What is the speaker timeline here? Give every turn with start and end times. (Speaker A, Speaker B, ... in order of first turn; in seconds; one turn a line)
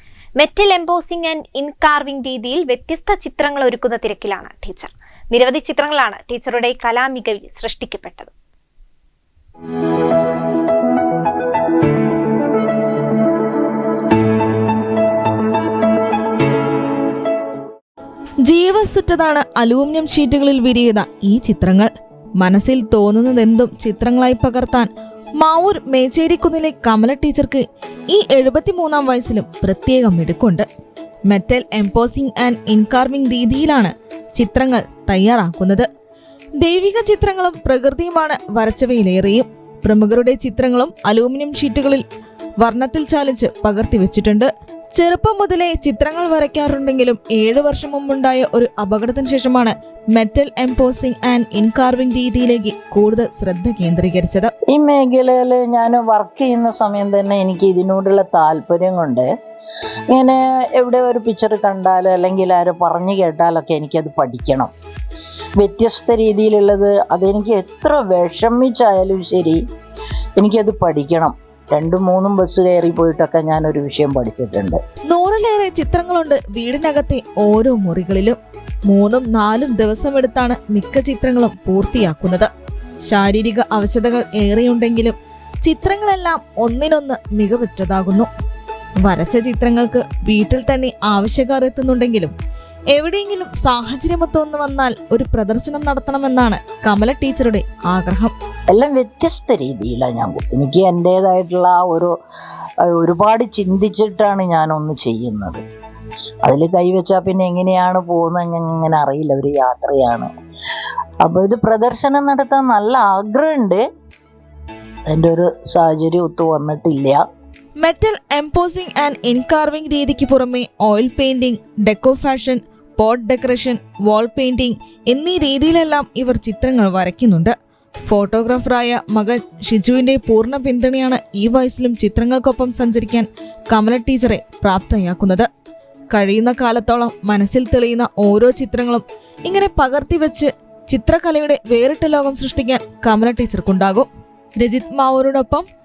Speaker A: 0.4-8.3
Speaker B: 18.4-30.7
Speaker B: 31.3-35.9
Speaker B: 36.6-42.0
Speaker B: 42.6-54.5
Speaker C: 54.7-59.3
Speaker C: 60.1-64.7
Speaker C: 65.6-69.6
Speaker C: 70.4-74.8
Speaker B: 75.1-82.5
Speaker B: 83.1-88.3
Speaker B: 89.0-92.3
Speaker B: 92.9-98.3
Speaker C: 98.7-102.1
Speaker C: 102.9-105.6
Speaker C: 106.4-110.3
Speaker C: 111.2-113.8
Speaker C: 115.1-117.2
Speaker B: 117.8-127.5
Speaker B: 128.1-135.5
Speaker B: 136.1-145.7